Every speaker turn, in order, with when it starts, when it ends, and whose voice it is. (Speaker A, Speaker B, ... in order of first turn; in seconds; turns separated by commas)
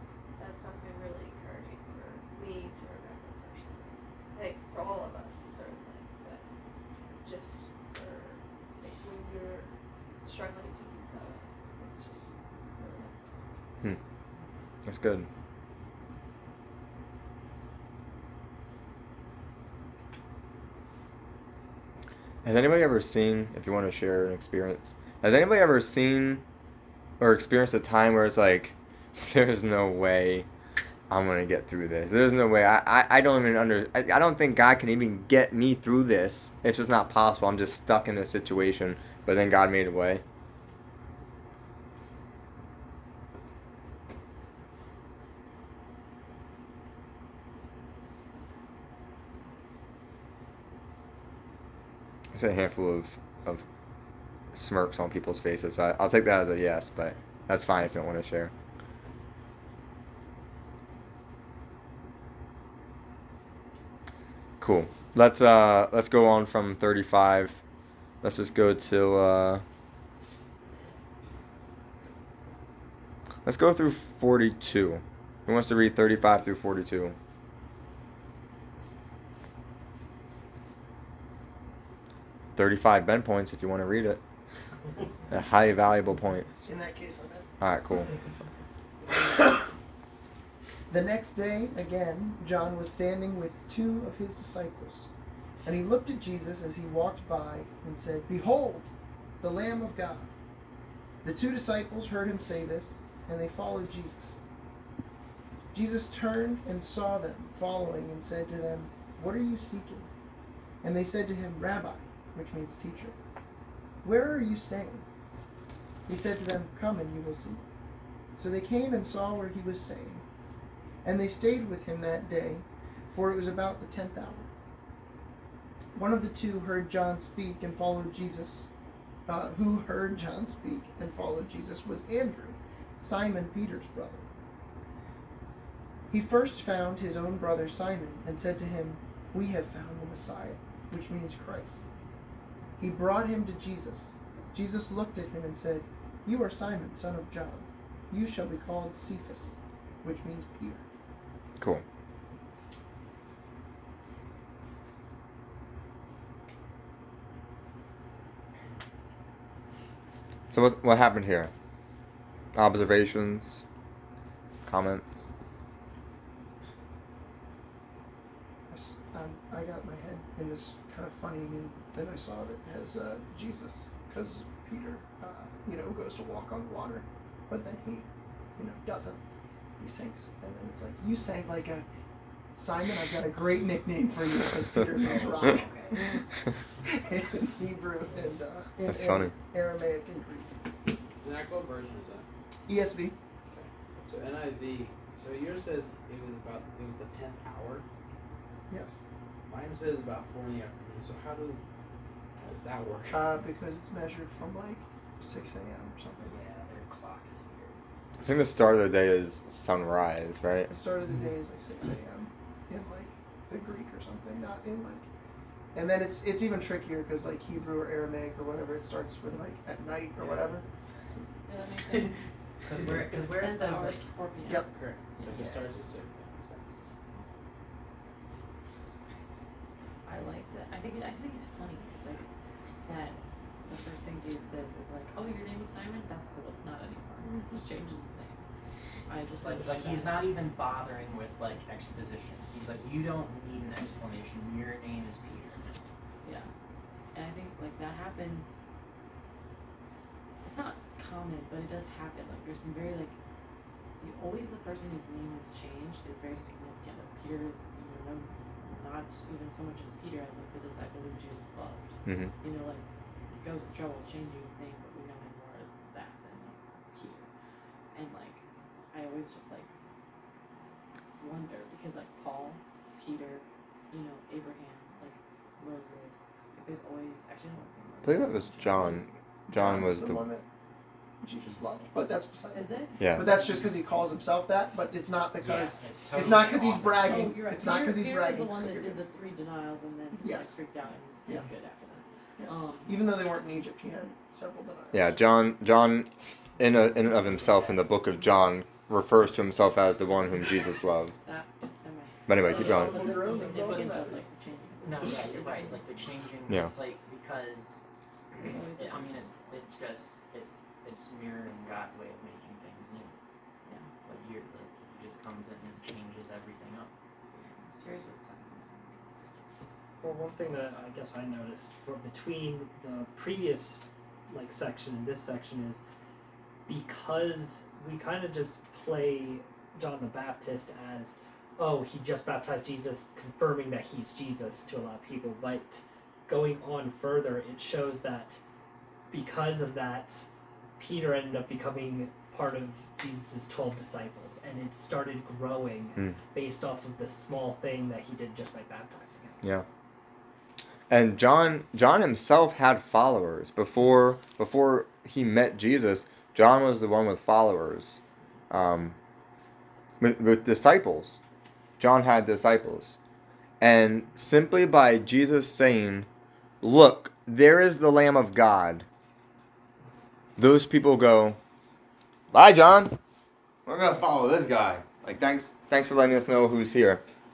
Speaker A: 0.4-6.5, Speaker A: 7.1-13.5, Speaker B: 14.8-15.3, Speaker B: 22.4-26.4, Speaker B: 27.2-30.5, Speaker B: 31.1-40.2, Speaker B: 52.3-53.6, Speaker B: 54.5-58.5, Speaker B: 64.6-67.6, Speaker B: 68.2-69.6, Speaker B: 73.5-77.2, Speaker B: 82.6-84.2, Speaker B: 85.3-86.6, Speaker C: 86.6-87.5, Speaker B: 87.6-88.1, Speaker C: 89.1-89.7, Speaker C: 90.9-95.1, Speaker C: 95.6-98.9, Speaker C: 99.4-100.3, Speaker C: 101.2-104.4, Speaker C: 105.7-110.1, Speaker C: 110.8-113.2, Speaker C: 114.0-115.1, Speaker C: 116.1-117.6, Speaker C: 118.4-120.2, Speaker C: 121.0-124.5, Speaker C: 126.0-128.7, Speaker C: 129.3-134.3, Speaker C: 136.1-141.8, Speaker C: 142.8-150.8, Speaker B: 160.5-161.5, Speaker B: 162.6-163.6, Speaker B: 164.7-165.3, Speaker C: 168.7-179.2, Speaker C: 179.8-181.8, Speaker C: 182.6-186.2, Speaker D: 185.0-186.2, Speaker C: 186.8-190.6, Speaker B: 188.9-189.3, Speaker E: 191.2-192.3, Speaker C: 192.7-193.2, Speaker E: 193.5-197.9, Speaker C: 198.7-199.0, Speaker E: 199.5-201.6, Speaker E: 202.4-203.4, Speaker C: 203.1-206.3, Speaker D: 206.2-207.8, Speaker B: 208.2-210.7, Speaker C: 210.7-215.1, Speaker C: 215.7-220.6, Speaker F: 221.5-222.2, Speaker D: 222.7-224.1, Speaker F: 222.8-224.7, Speaker C: 224.4-224.7, Speaker E: 224.7-226.7, Speaker D: 225.2-225.7, Speaker F: 230.1-232.2, Speaker F: 232.8-238.4, Speaker F: 239.1-240.3, Speaker D: 239.4-245.8, Speaker F: 246.2-246.5, Speaker F: 247.1-248.6, Speaker F: 250.4-253.2, Speaker F: 254.0-267.3, Speaker B: 262.1-262.3, Speaker F: 267.9-269.7, Speaker F: 271.2-279.1, Speaker B: 278.0-280.2, Speaker C: 279.5-280.4, Speaker C: 281.2-289.0, Speaker F: 282.5-283.7, Speaker B: 283.0-283.3, Speaker D: 285.4-287.4, Speaker F: 287.0-292.9, Speaker C: 290.2-290.5, Speaker C: 292.4-295.2, Speaker B: 294.9-301.2, Speaker F: 301.2-305.9, Speaker B: 302.3-303.0, Speaker C: 302.4-304.3, Speaker D: 304.8-307.9, Speaker F: 308.4-309.7, Speaker D: 308.4-313.2, Speaker F: 313.6-313.9, Speaker D: 314.0-316.9, Speaker F: 317.3-319.1, Speaker G: 320.0-325.8, Speaker G: 326.7-338.4, Speaker G: 339.1-340.3, Speaker G: 340.8-349.4, Speaker B: 350.9-359.0, Speaker B: 360.0-361.2, Speaker B: 361.8-363.0, Speaker B: 363.6-366.1, Speaker B: 366.6-368.9, Speaker B: 370.4-371.4, Speaker B: 372.3-373.0, Speaker B: 373.7-377.0